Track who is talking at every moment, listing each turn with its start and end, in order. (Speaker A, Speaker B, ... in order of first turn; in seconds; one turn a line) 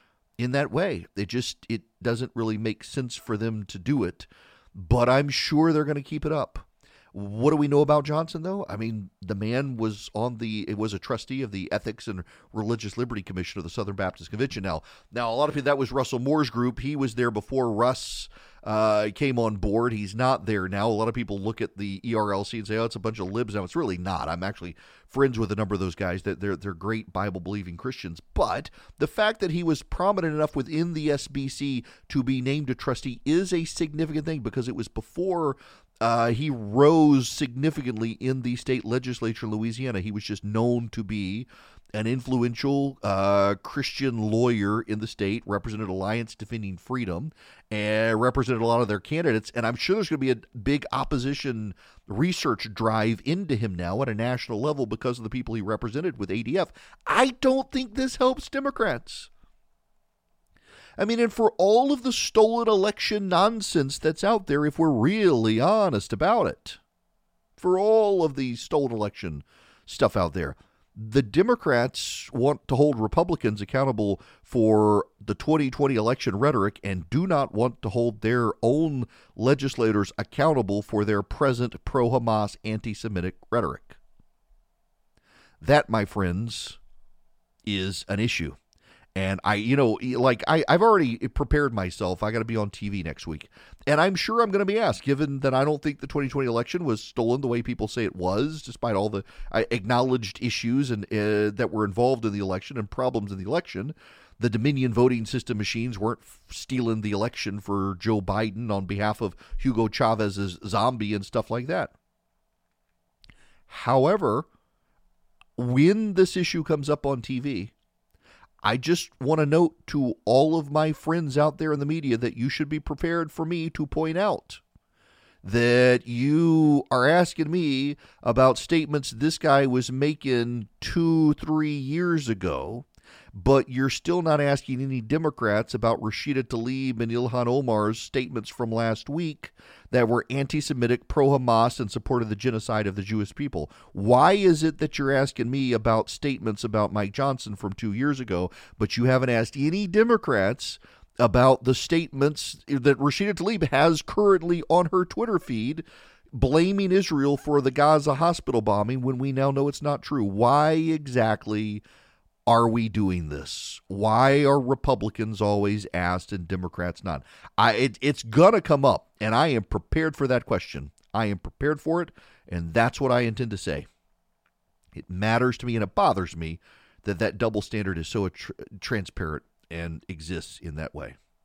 Speaker A: 0.4-59.3
Speaker A: 61.0-66.8
Speaker A: 67.6-84.0
Speaker A: 85.6-86.8
Speaker A: 87.7-88.6
Speaker A: 89.2-111.9
Speaker A: 113.7-114.5
Speaker A: 115.6-117.7
Speaker A: 118.6-124.6
Speaker A: 125.4-161.8
Speaker A: 162.5-173.9
Speaker A: 174.9-181.2